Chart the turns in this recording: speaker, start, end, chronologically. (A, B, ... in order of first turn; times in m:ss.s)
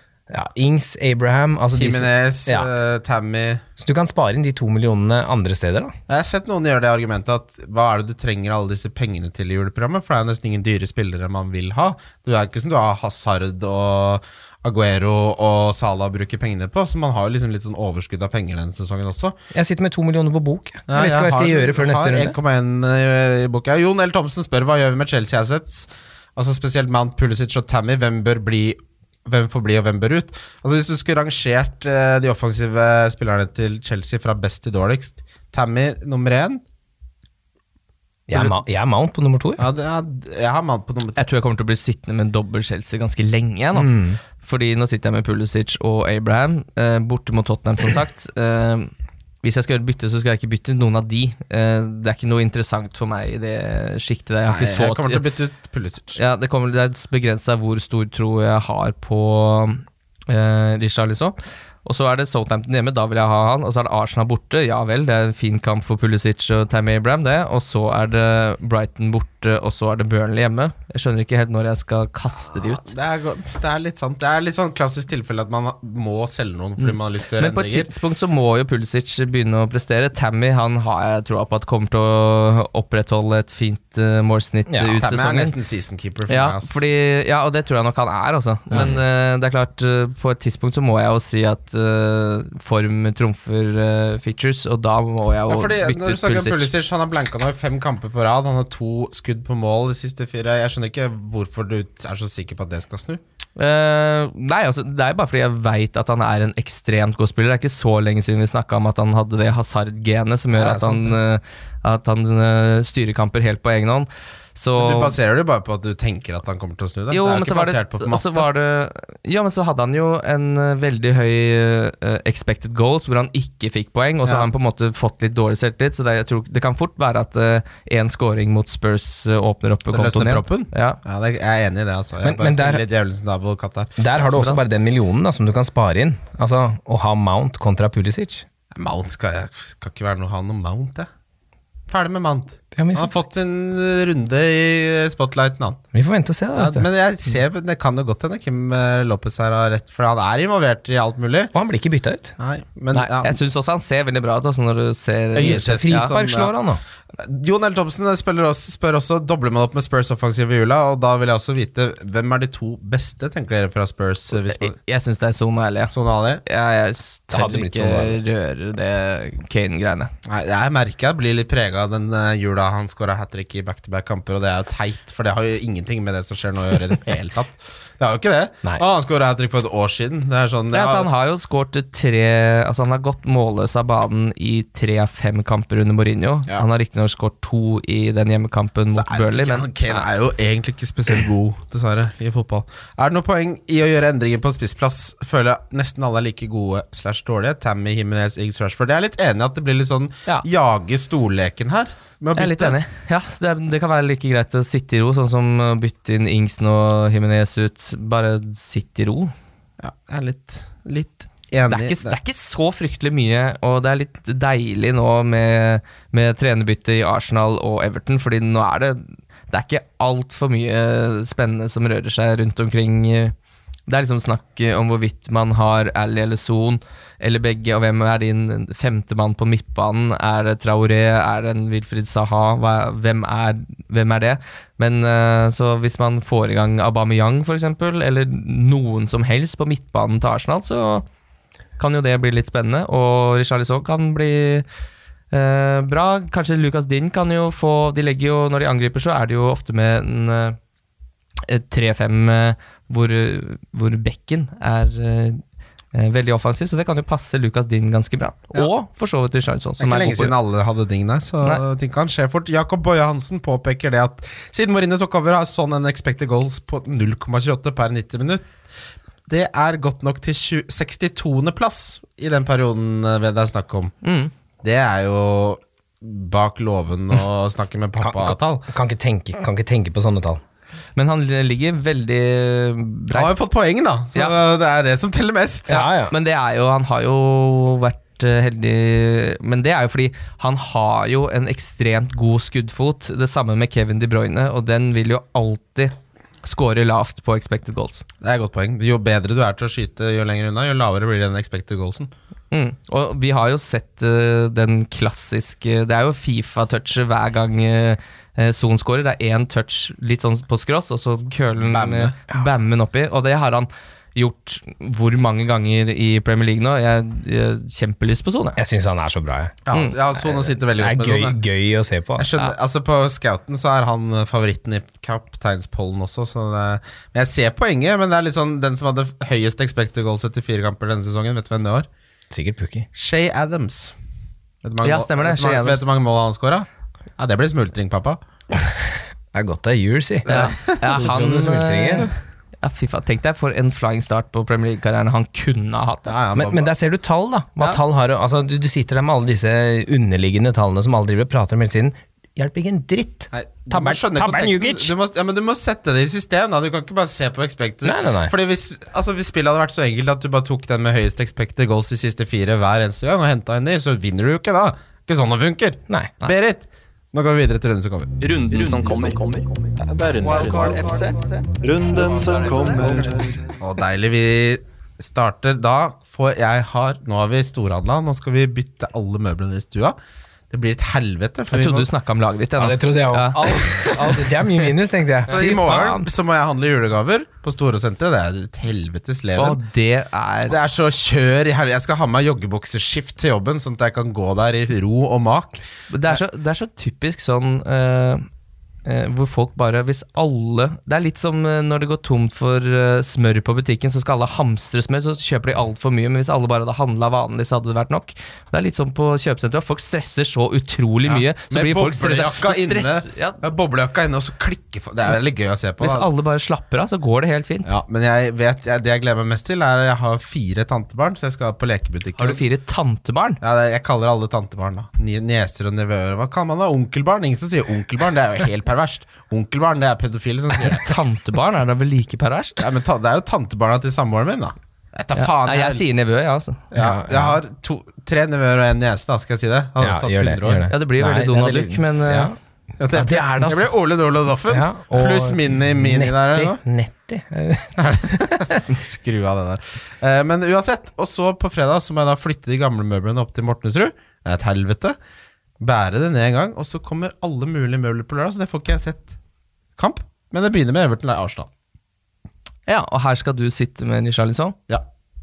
0:00.3-0:02.7 A
0:01.7-0:03.6 B
0:03.8-0:06.0 A
0:06.1-0:19.4 B
0:19.5-0:22.4 A
0:20.9-0:36.6 B
0:38.3-0:39.7 A
0:38.3-0:38.6 B
0:39.6-0:41.2 B
0:41.2-0:48.9 C
0:43.8-0:44.2 A
0:49.4-0:55.2 C
0:54.5-0:56.2 B
0:56.2-1:12.9 C
1:12.5-1:17.9 B
1:16.8-1:25.5 C
1:24.7-1:25.0 A
1:25.0-1:26.7 B
1:26.3-1:36.7 C
1:28.7-1:29.0 B
1:35.5-1:43.2 B
1:43.6-1:55.1 C
1:50.5-1:51.2 B
1:54.8-1:58.5 B
1:57.1-2:11.0 C
2:09.9-2:14.0 B
2:12.2-2:12.8 A
2:14.0-2:18.5 A
2:18.7-2:21.1 B
2:21.9-2:25.8 B
2:22.8-2:23.1 A
2:25.9-2:26.9 A
2:26.6-2:31.5 B
2:31.5-2:32.3 A
2:32.4-2:33.4 B
2:33.2-2:36.1 C
2:35.3-2:36.5 B
2:35.4-2:36.8 A
2:37.2-2:44.8 B
2:44.5-2:45.9 C
2:45.9-2:46.4 B
2:46.4-2:50.1 C
2:47.3-2:48.2 A
2:50.3-3:01.1 B
3:00.7-3:10.1 C
3:08.9-3:22.8 B
3:22.4-3:29.3 C
3:29.8-3:32.2 B
3:31.7-3:43.4 C
3:43.9-4:01.1 C
4:01.8-4:04.7 C
4:05.3-4:10.6 C
4:11.5-4:15.4 C
4:15.9-4:20.3 C
4:19.8-4:28.4 B
4:29.3-4:33.9 B
4:34.0-4:34.3 C
4:34.6-4:38.7 B
4:38.0-4:40.4 A
4:41.0-4:43.3 C
4:43.1-4:45.8 B
4:45.7-4:58.0 C
4:45.7-4:46.1 A
4:58.2-5:02.1 B
5:02.5-5:18.6 C
5:11.6-5:12.2 B
5:18.6-5:19.6 A
5:19.7-5:21.4 B
5:20.2-5:22.3 A
5:22.2-5:31.9 B
5:32.3-5:32.9 A
5:32.9-5:34.0 B
5:34.6-5:36.7 B
5:34.8-5:35.9 C
5:37.2-5:38.2 B
5:39.3-5:42.1 A
5:40.3-5:46.1 C
5:40.3-5:40.8 B
5:46.1-5:46.7 B
5:46.3-5:54.9 A
5:53.3-6:08.1 B
5:57.8-5:58.3 A
6:08.2-6:09.5 D
6:09.9-6:10.9 B
6:10.1-6:13.4 D
6:13.6-6:20.0 B
6:20.5-6:21.9 B
6:21.5-6:24.3 C
6:22.6-6:26.1 A
6:25.3-6:29.6 B
6:29.4-6:30.6 C
6:30.5-6:36.2 B
6:35.9-6:38.3 C
6:38.8-6:53.4 C
6:51.1-6:56.1 B
6:55.8-6:57.7 C
6:57.7-7:02.4 B
7:02.2-7:03.4 C
7:03.4-7:10.9 B
7:10.6-7:12.6 C
7:12.6-7:15.8 B
7:15.2-7:16.6 C
7:16.7-7:20.7 B
7:16.8-7:17.4 A
7:19.8-7:22.4 A
7:20.7-7:22.3 C
7:22.8-7:26.6 B
7:22.9-7:23.7 A
7:24.5-7:28.7 A
7:27.8-7:35.0 B
7:35.6-7:39.1 B
7:39.8-7:41.5 B
7:42.7-7:44.6 C